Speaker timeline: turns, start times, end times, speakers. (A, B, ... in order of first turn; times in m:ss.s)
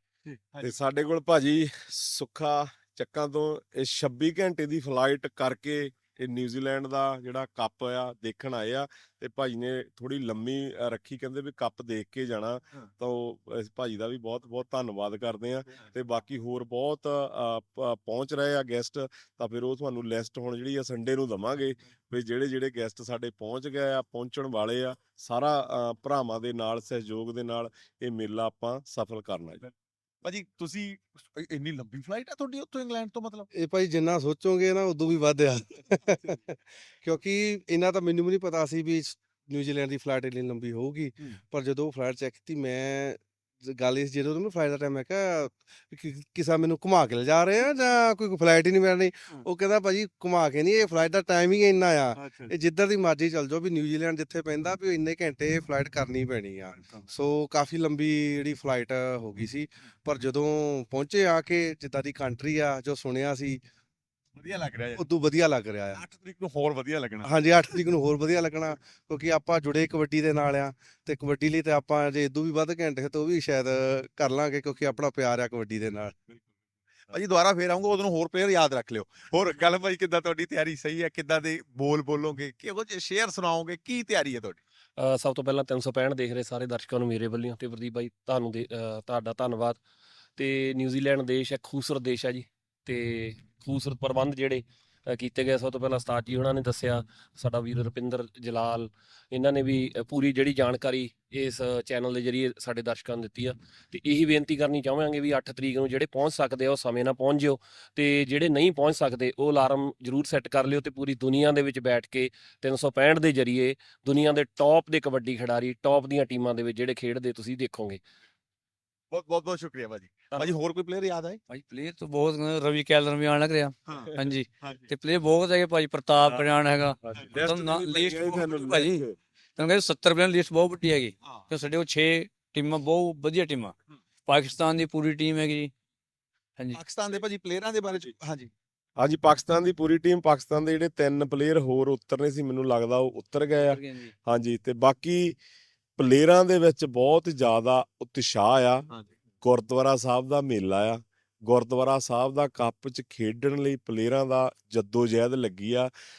0:00.3-0:00.7 A
0:00.6-0:29.6 B
0:30.2-0:33.5 A
0:33.5-1:03.6 C
1:04.4-1:05.0 A
1:05.0-1:06.0 C
1:05.9-1:07.3 A
1:07.2-1:16.2 C
1:17.1-1:24.6 A
1:25.0-1:29.8 D
1:30.4-1:34.6 D
1:35.2-1:58.0 D
1:59.1-2:01.4 A
2:01.5-2:09.0 E
2:07.0-2:09.2 B
2:09.6-2:13.7 E
2:14.2-2:15.7 E
2:16.7-2:18.5 A
2:19.0-2:25.4 B
2:23.5-2:24.1 E
2:26.0-2:28.9 B
2:29.4-2:35.9 B